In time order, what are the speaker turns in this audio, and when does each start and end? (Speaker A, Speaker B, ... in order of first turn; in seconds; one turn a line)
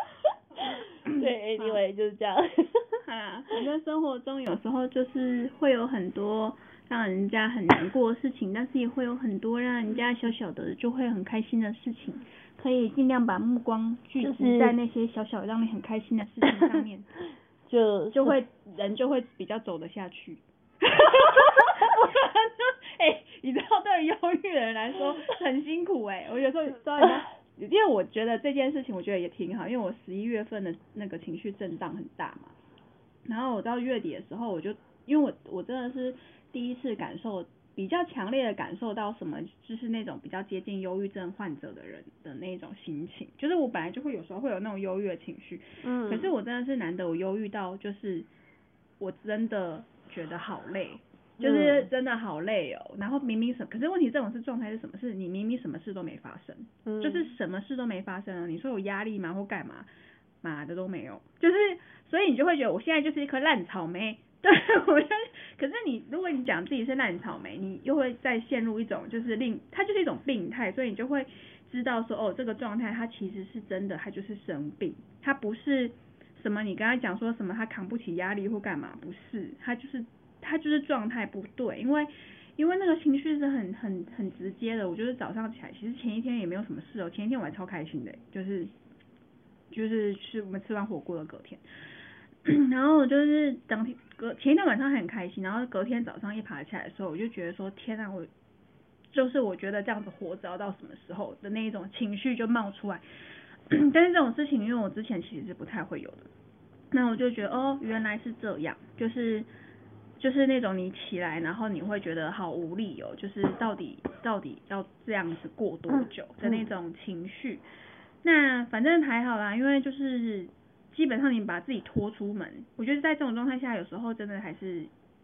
Speaker A: 1.1-3.0
Speaker B: 1.1-1.8
Speaker B: 3.1-17.1
Speaker A: 14.2-14.8
Speaker A: 17.7-18.4
Speaker B: 18.1-32.5
Speaker B: 33.3-48.3
Speaker A: 45.8-46.3
Speaker B: 49.0-59.9
Speaker A: 51.4-51.9
Speaker A: 56.9-57.4
Speaker B: 60.4-88.7
Speaker B: 89.7-91.6
Speaker B: 92.4-98.3
Speaker B: 99.1-103.0
Speaker B: 103.7-106.3
Speaker B: 106.9-109.5
Speaker B: 110.2-117.6
Speaker A: 116.4-116.7
Speaker B: 118.2-124.9